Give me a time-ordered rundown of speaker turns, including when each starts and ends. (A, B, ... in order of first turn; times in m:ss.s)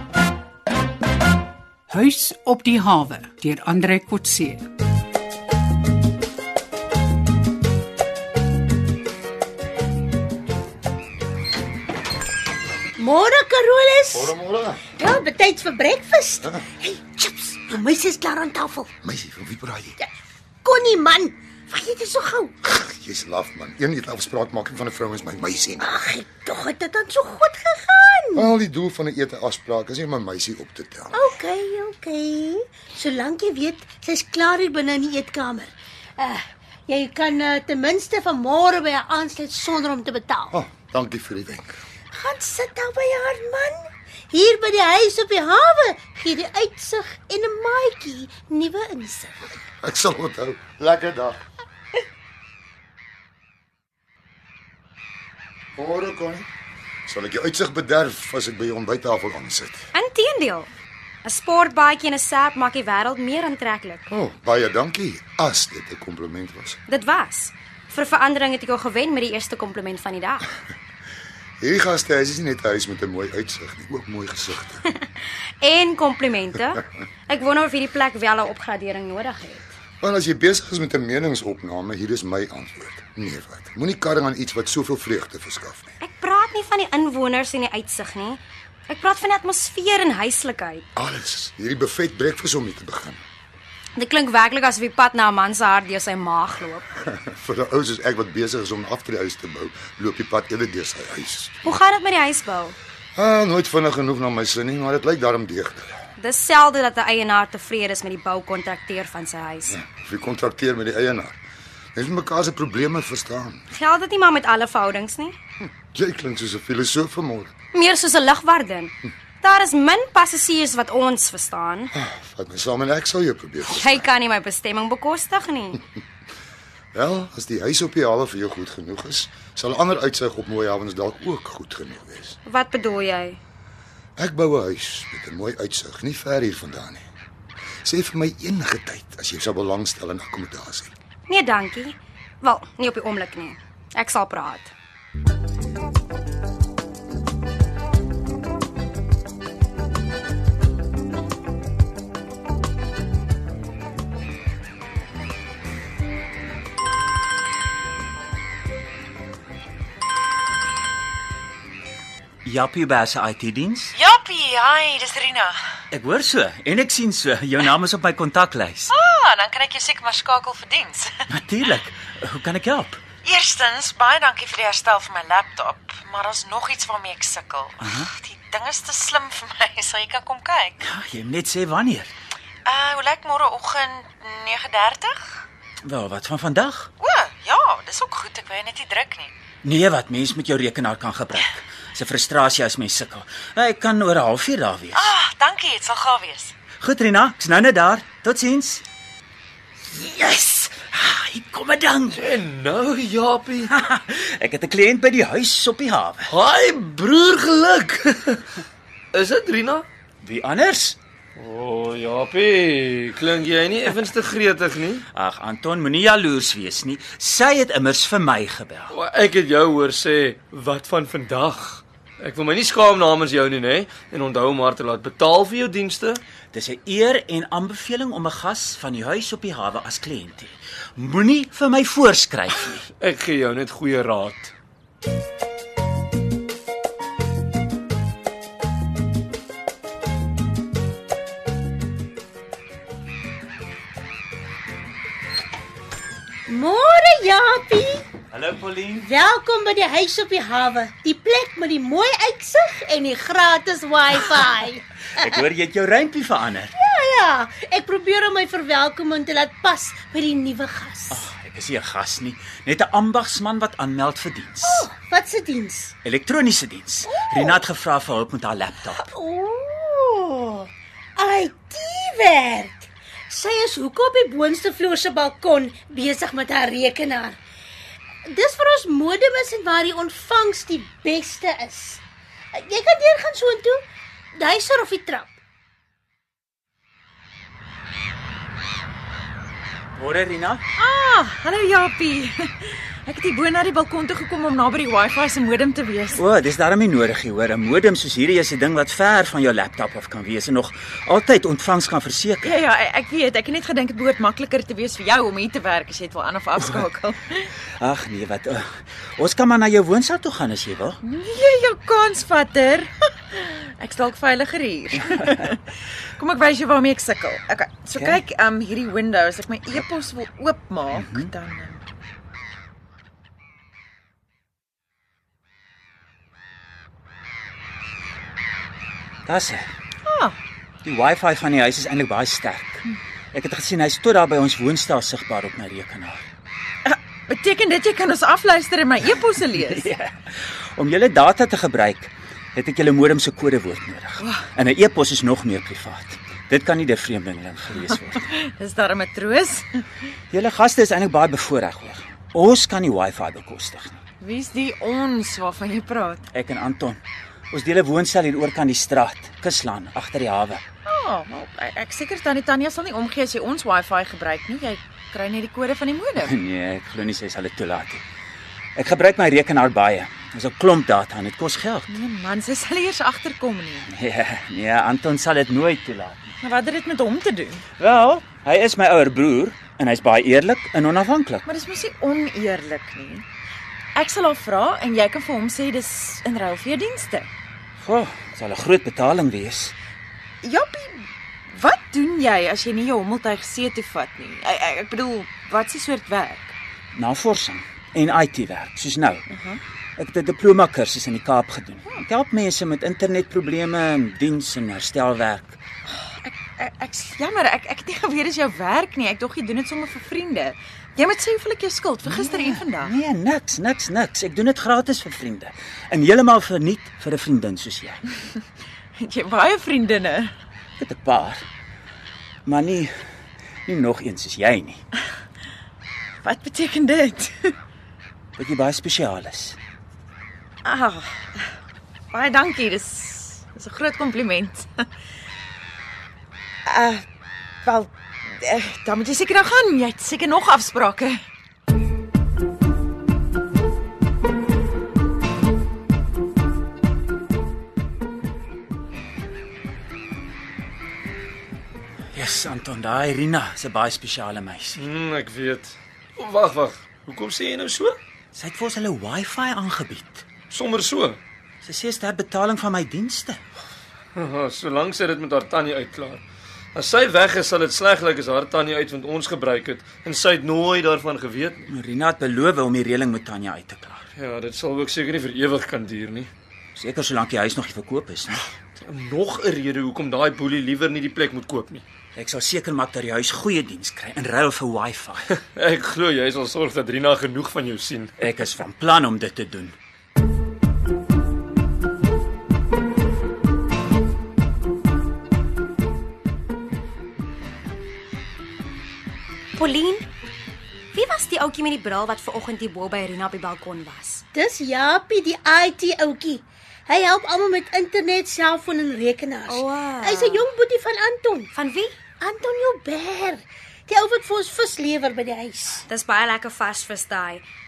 0:01.9-0:04.6 A
0:13.0-0:14.3 B
0:14.1-0:14.8 C
0:15.0-0:18.9 B
0:19.0-0:20.0 C
0:20.6-0:22.6 B
0:22.6-0:25.9 C
0:25.8-0:28.5 B
0:28.4-0:31.2 C
0:31.1-0:40.5 B
0:40.5-0:41.8 C
0:42.1-0:49.6 B
0:49.8-0:51.4 C
0:55.8-0:56.4 C
0:57.1-0:59.8 C
0:59.9-1:00.7 D
1:01.2-1:04.1 D
1:04.1-1:06.8 C
1:06.9-1:10.5 D
1:11.6-1:14.8 C
1:15.6-1:19.7 D
1:20.0-1:25.9 C
1:26.0-1:30.8 D
1:31.0-1:33.2 C
1:34.0-1:36.9 D
1:37.1-1:41.5 C
1:41.6-1:42.8 D
1:43.2-1:45.9 C
1:46.2-1:49.8 D
1:49.7-1:51.4 C
1:52.0-1:53.6 C
1:53.7-1:55.4 D
1:55.9-1:57.5 C
1:57.7-2:01.9 D
2:02.0-2:04.1 C
2:03.6-2:05.8 D
2:06.9-2:12.4 C
2:12.4-2:13.4 D
2:14.2-2:17.0 C
2:17.8-2:20.9 C
2:21.3-2:24.7 D
2:42.4-2:43.9 E
2:44.0-2:45.6 F
2:45.9-2:48.9 E
2:48.9-2:51.2 F
2:51.3-2:53.0 E
2:53.2-3:00.8 F
2:57.8-2:58.1 E
3:00.8-3:02.1 E
3:02.7-3:05.2 F
3:05.8-3:06.9 E
3:07.0-3:09.3 F
3:09.6-3:15.1 E
3:15.0-3:16.6 F
3:16.7-3:18.8 E
3:19.8-3:22.3 E
3:22.2-3:23.7 G
3:23.7-3:26.4 E
3:26.3-3:28.4 G
3:29.1-3:29.8 G
3:30.2-3:31.0 E
3:31.4-3:35.0 G
3:35.1-3:39.0 E
3:38.9-3:46.2 G
3:46.5-3:52.9 E
3:53.0-3:54.5 G
4:06.5-4:08.0 B
4:08.3-4:09.1 E
4:09.0-4:15.4 B
4:15.2-4:16.7 E
4:16.7-4:21.3 B
4:21.1-4:24.9 E
4:24.6-4:25.9 B
4:26.0-4:29.0 E
4:27.0-4:27.6 B
4:28.9-4:37.4 B
4:38.3-4:42.0 B
4:42.5-4:43.8 B
4:44.3-4:45.4 B
4:50.0-4:50.6 E
4:50.8-4:56.2 F
4:56.1-5:02.6 E
5:02.4-5:07.5 F
5:07.8-5:11.0 E
5:11.0-5:15.6 F
5:16.2-5:21.8 F
5:18.0-5:18.2 E
5:20.9-5:21.3 E
5:29.2-5:29.7 E
5:30.0-5:30.4 F
5:30.8-5:36.2 E
5:36.8-5:39.8 F
5:39.6-5:48.3 E
5:44.2-5:44.4 F
5:48.3-5:49.8 F
5:50.3-5:54.0 E
5:54.2-5:56.2 F
5:56.3-5:57.0 E
5:57.5-6:00.6 E
6:00.8-6:06.3 F
6:06.2-6:08.0 E
6:08.8-6:12.0 E
6:11.9-6:13.9 F
6:13.9-6:16.2 E
6:16.4-6:17.6 F
6:17.8-6:21.4 E
6:21.4-6:23.2 F
6:23.9-6:27.3 F
6:27.8-6:29.7 E
6:30.4-6:36.5 F
6:36.9-6:39.2 E
6:39.3-6:39.6 F
6:40.0-6:45.6 E
6:45.9-6:52.9 F
6:52.0-6:58.0 E
6:59.0-7:00.3 F
7:00.8-7:01.4 E
7:02.4-7:02.9 E
7:03.6-7:04.8 E
7:06.2-7:07.5 F
7:08.4-7:09.6 E
7:10.6-7:11.5 F
7:12.1-7:14.8 F
7:16.6-7:17.0 F
7:17.6-7:21.2 F
7:32.1-7:34.9 E
7:34.8-7:38.0 G
7:38.3-7:40.3 E
7:40.5-7:41.2 G
7:41.6-7:43.4 E
7:44.2-7:46.2 G
7:46.7-7:51.6 G
7:51.7-7:54.0 E
7:54.2-7:56.3 G
7:56.8-7:58.4 E
7:58.8-8:01.8 G
8:02.2-8:05.4 E
8:05.5-8:08.1 G
8:08.2-8:09.7 E
8:19.6-8:20.0 D
8:20.9-8:24.2 D
8:24.3-8:31.5 B
8:29.5-8:30.5 D
8:31.5-8:31.9 D
8:32.2-8:35.8 B
8:35.9-8:37.4 D